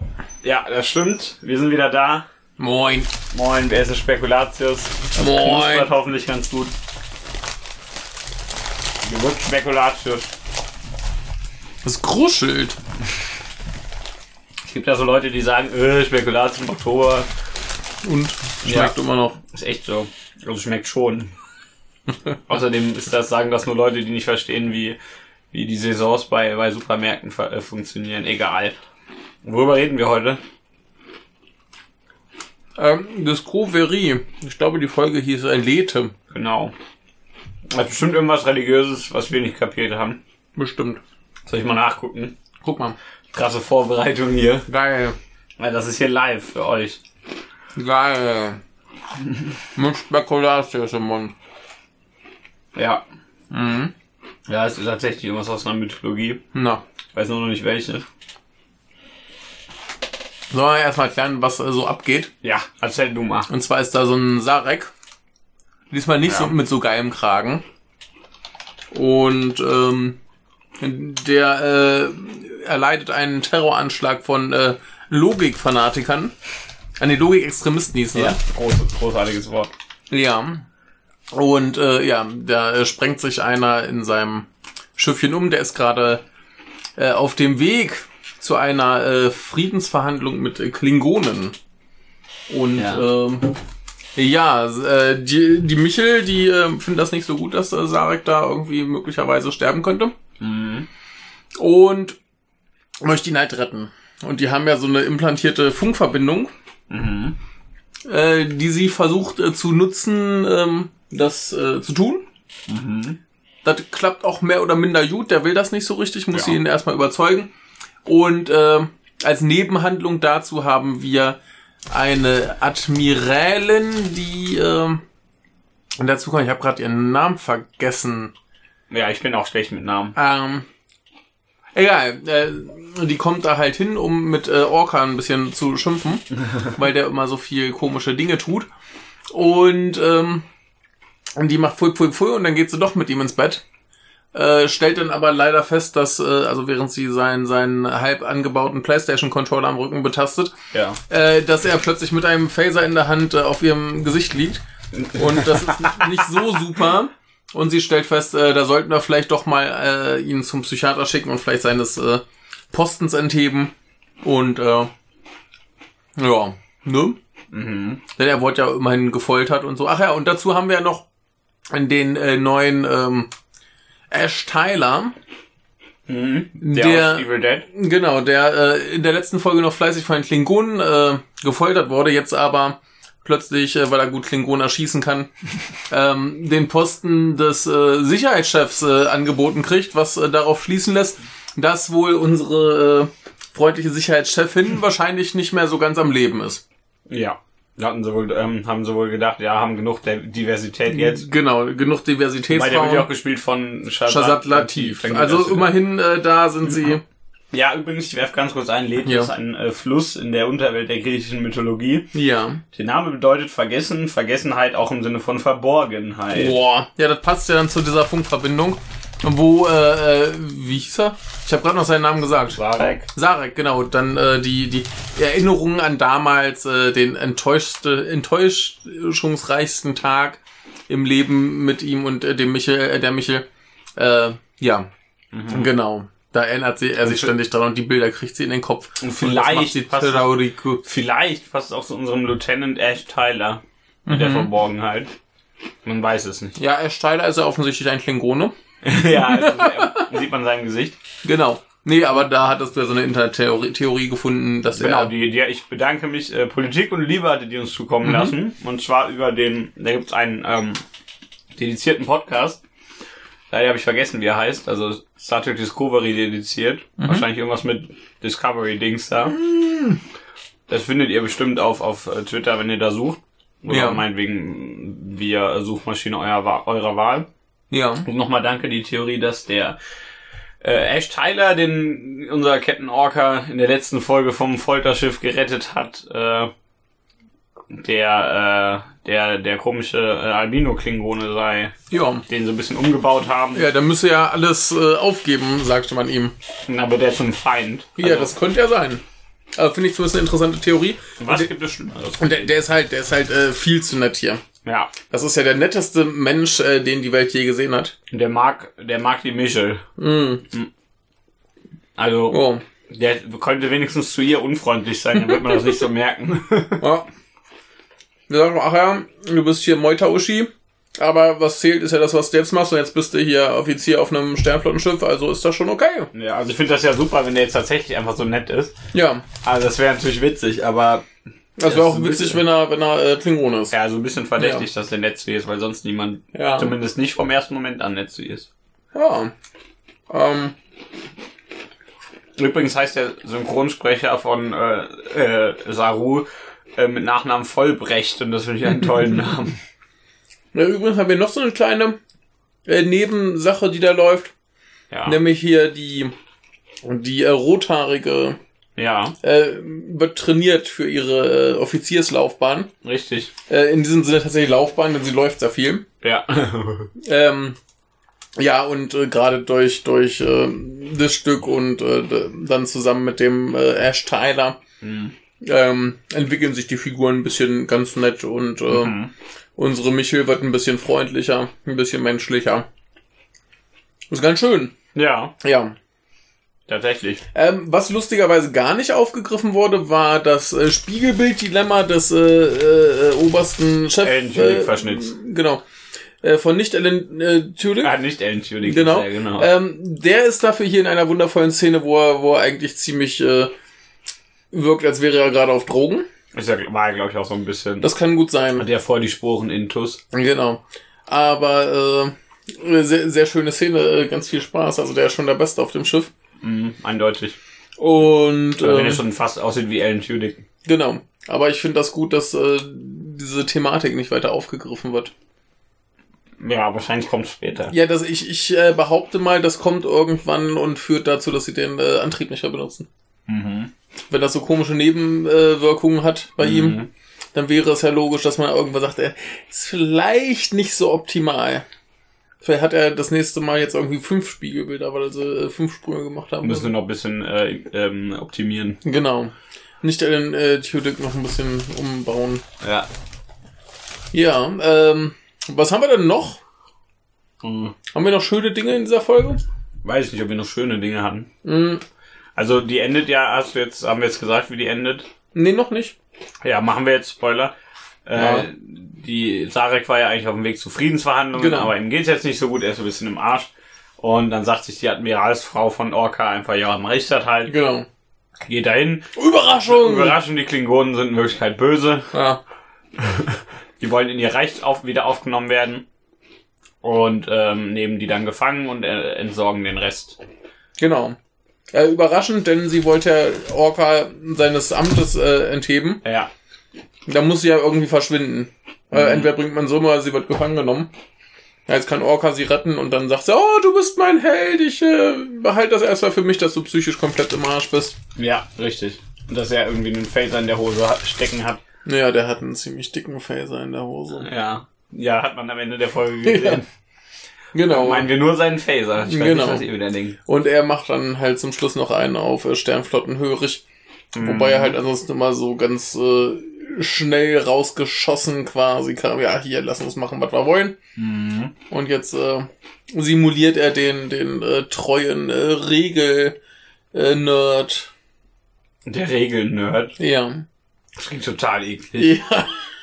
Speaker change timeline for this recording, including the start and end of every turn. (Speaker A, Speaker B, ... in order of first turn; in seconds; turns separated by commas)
Speaker A: 0.4-2.2, Speaker B: 2.6-3.1, Speaker A: 3.3-6.7, Speaker B: 5.1-5.9, Speaker A: 9.0-10.3, Speaker B: 11.8-12.8, Speaker A: 14.6-17.3, Speaker B: 18.0-19.4, Speaker A: 18.6-18.9, Speaker A: 19.5-21.3, Speaker A: 22.5-25.0, Speaker A: 25.5-28.8, Speaker A: 29.4-30.4, Speaker B: 32.8-36.1, Speaker A: 36.3-36.7, Speaker A: 37.7-40.2, Speaker B: 40.6-41.0, Speaker A: 41.5-42.3, Speaker B: 42.6-43.0, Speaker A: 43.3-44.7, Speaker B: 44.7-45.2, Speaker A: 45.6-47.0, Speaker B: 47.8-48.6, Speaker B: 49.7-51.3, Speaker A: 52.7-53.0, Speaker B: 53.5-53.9, Speaker A: 54.5-56.4, Speaker B: 56.5-56.8, Speaker A: 57.1-58.0, Speaker B: 60.5-62.3, Speaker A: 62.4-63.5, Speaker B: 63.5-64.9, Speaker B: 65.9-67.6, Speaker A: 66.2-66.5, Speaker B: 68.9-70.2, Speaker B: 70.8-76.3, Speaker B: 77.0-78.4, Speaker A: 78.1-79.7, Speaker B: 80.1-80.6, Speaker B: 81.3-86.2, Speaker B: 87.0-91.5, Speaker B: 92.5-93.6, Speaker A: 92.8-93.1, Speaker B: 94.2-100.1, Speaker A: 100.4-100.9, Speaker B: 101.5-102.2, Speaker B: 103.0-106.5, Speaker A: 106.9-107.4, Speaker B: 108.1-112.2, Speaker A: 112.7-113.2, Speaker B: 113.6-117.5, Speaker A: 116.3-116.6, Speaker B: 118.0-121.4, Speaker B: 121.9-125.0, Speaker B: 126.0-128.3, Speaker A: 128.9-130.1, Speaker B: 130.1-130.7, Speaker B: 131.8-138.7, Speaker B: 139.3-140.4, Speaker B: 141.4-143.6, Speaker B: 144.3-150.5, Speaker A: 150.7-151.0, Speaker B: 151.1-163.7, Speaker A: 155.0-156.5, Speaker B: 164.2-164.9, Speaker B: 166.2-167.2, Speaker A: 167.5-168.0, Speaker B: 168.1-171.0, Speaker B: 171.7-173.3, Speaker B: 174.1-175.1, Speaker A: 176.1-177.7, Speaker B: 176.6-185.3, Speaker B: 185.9-196.6, Speaker A: 197.1-201.3, Speaker B: 200.9-203.1, Speaker A: 202.5-205.7, Speaker B: 204.1-207.0, Speaker A: 207.5-212.1, Speaker B: 209.0-209.3, Speaker B: 212.1-212.6, Speaker A: 212.7-216.6, Speaker B: 216.3-222.6, Speaker A: 222.5-223.1, Speaker B: 223.1-233.4, Speaker B: 234.0-234.9, Speaker A: 235.3-235.7, Speaker B: 235.5-240.8, Speaker A: 237.0-237.3, Speaker A: 239.0-245.1, Speaker B: 244.1-244.5, Speaker A: 245.8-246.5, Speaker B: 246.6-248.5, Speaker A: 248.8-250.9, Speaker B: 249.1-250.1, Speaker B: 251.2-255.1, Speaker A: 254.7-260.8, Speaker B: 258.0-258.3, Speaker A: 261.6-262.6, Speaker A: 263.5-269.4, Speaker B: 267.0-267.2, Speaker B: 269.2-270.0, Speaker A: 270.7-277.3, Speaker B: 273.7-274.0, Speaker B: 277.7-278.1, Speaker A: 278.0-279.8, Speaker A: 280.6-286.5, Speaker A: 287.7-291.7, Speaker B: 291.9-292.2, Speaker A: 292.3-293.7, Speaker B: 293.5-296.3, Speaker A: 296.7-298.3, Speaker B: 298.0-299.0, Speaker B: 299.6-301.5, Speaker A: 301.2-302.5, Speaker B: 302.2-304.4, Speaker A: 304.6-304.9, Speaker B: 305.1-307.9, Speaker A: 308.1-309.8, Speaker B: 310.0-310.4, Speaker A: 312.0-316.8, Speaker B: 312.3-312.6, Speaker B: 316.8-317.1, Speaker B: 318.3-326.1, Speaker A: 326.1-328.7, Speaker B: 328.9-329.2, Speaker A: 329.4-331.0, Speaker B: 331.6-333.7, Speaker A: 331.6-332.4, Speaker A: 333.7-338.5, Speaker B: 334.4-334.6, Speaker B: 336.3-336.7, Speaker B: 338.9-339.3, Speaker B: 340.1-340.5, Speaker A: 342.4-349.6, Speaker B: 350.5-352.0, Speaker B: 352.6-354.3, Speaker A: 354.9-355.2, Speaker B: 355.1-356.1, Speaker B: 356.8-358.4, Speaker A: 358.8-359.1, Speaker B: 359.2-362.7, Speaker A: 362.8-363.3, Speaker B: 363.5-365.8, Speaker A: 366.0-366.9, Speaker B: 367.0-367.6, Speaker B: 368.4-374.6, Speaker A: 374.8-375.1, Speaker B: 375.4-378.9, Speaker A: 378.7-379.1, Speaker B: 379.6-382.6, Speaker B: 384.1-384.7, Speaker A: 384.9-385.3, Speaker B: 385.4-385.8, Speaker A: 386.7-387.2, Speaker B: 387.3-395.6, Speaker A: 394.0-395.1, Speaker B: 396.2-398.0, Speaker A: 397.8-399.5, Speaker B: 398.6-403.5, Speaker B: 404.5-406.1, Speaker A: 406.3-407.9, Speaker B: 407.8-408.6, Speaker A: 408.6-410.0, Speaker B: 410.1-416.1, Speaker A: 416.4-417.4, Speaker B: 417.8-419.0, Speaker A: 418.6-420.4, Speaker B: 420.6-425.1, Speaker A: 426.4-427.7, Speaker B: 427.7-432.9, Speaker A: 433.3-433.7, Speaker B: 434.1-436.8, Speaker A: 436.4-436.9, Speaker B: 437.3-441.6, Speaker B: 442.4-446.7, Speaker A: 446.4-448.8, Speaker B: 448.8-452.4, Speaker A: 452.6-452.9, Speaker B: 454.1-456.4, Speaker A: 457.4-457.7, Speaker B: 457.9-459.4, Speaker A: 459.8-461.3, Speaker B: 461.4-461.8, Speaker A: 462.4-465.1, Speaker B: 465.3-465.9, Speaker A: 466.4-467.5, Speaker A: 468.1-477.5, Speaker B: 468.1-468.5, Speaker B: 471.3-471.7, Speaker B: 477.4-477.9, Speaker A: 478.4-482.1, Speaker B: 479.1-480.2, Speaker B: 482.1-482.4, Speaker A: 483.0-485.8, Speaker A: 486.8-490.2, Speaker B: 490.8-491.1, Speaker B: 491.7-496.0, Speaker A: 496.0-496.3, Speaker B: 497.1-500.9, Speaker A: 498.9-499.4, Speaker B: 501.7-507.9, Speaker A: 508.1-511.6, Speaker B: 511.9-514.3, Speaker A: 514.2-516.7, Speaker B: 516.2-516.6, Speaker B: 517.5-518.1, Speaker A: 517.6-520.2, Speaker B: 519.0-519.6, Speaker B: 520.2-523.6, Speaker A: 524.1-524.8, Speaker B: 524.2-530.8, Speaker A: 531.0-531.5, Speaker B: 531.7-536.4, Speaker B: 536.9-537.9, Speaker A: 538.9-540.0, Speaker B: 540.0-540.4, Speaker A: 541.0-542.2, Speaker B: 542.0-542.6